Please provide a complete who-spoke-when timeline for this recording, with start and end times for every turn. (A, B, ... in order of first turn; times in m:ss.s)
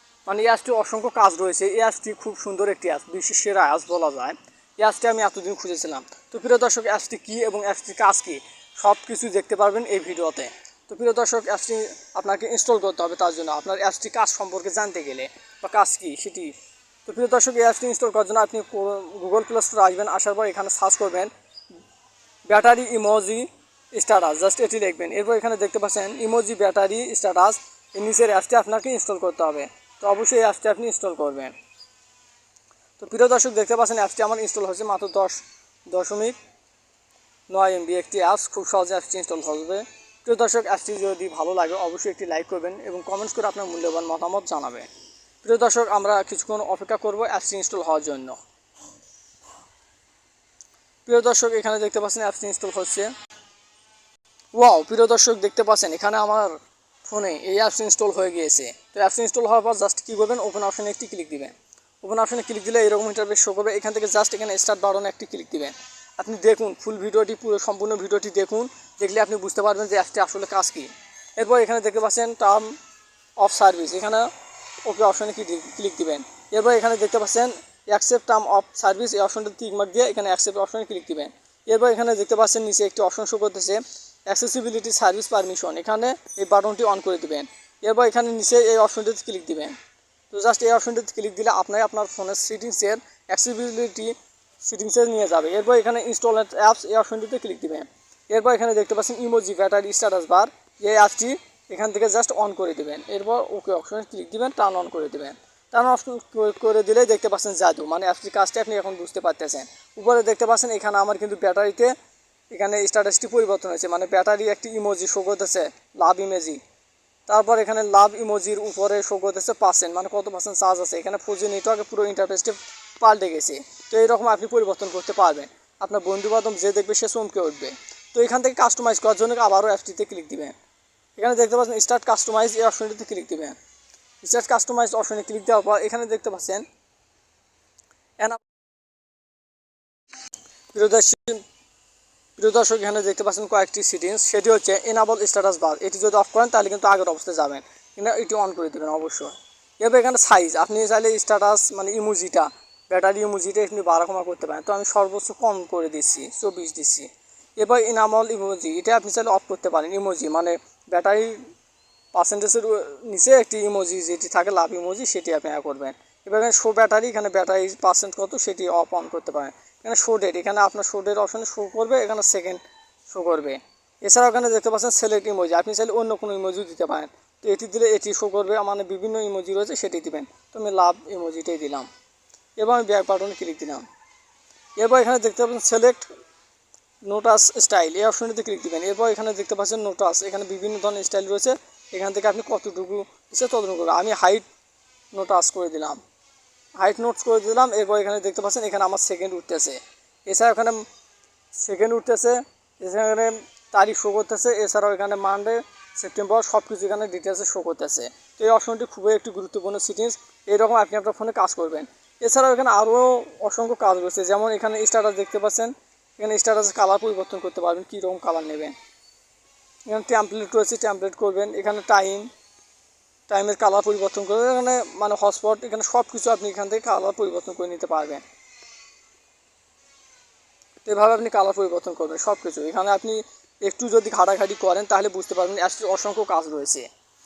0:00.3-0:16.5 A
0:17.1-0:21.3 A
0:22.5-0:31.5 A
0:33.0-0:35.4 A
0:35.9-0:36.4 A
0:37.5-0:44.9 A
0:45.4-0:48.4 A
0:51.1-0:53.1 A
0:54.6-1:12.8 A
1:13.4-1:14.3 A
1:14.8-1:29.8 A
1:30.3-1:51.9 A
1:52.5-1:56.6 A
1:57.3-2:10.5 A
2:11.2-2:13.6 A
2:14.2-2:16.6 A
2:20.7-2:21.4 A
2:22.4-2:41.4 A
2:42.1-3:01.9 A
3:02.6-3:03.8 A
3:04.8-3:06.1 A
3:07.0-3:14.4 A
3:15.1-3:16.0 A
3:16.8-3:20.8 A
3:21.5-3:38.8 A
3:39.9-3:42.3 A
3:43.3-3:48.2 A
3:50.8-3:56.9 A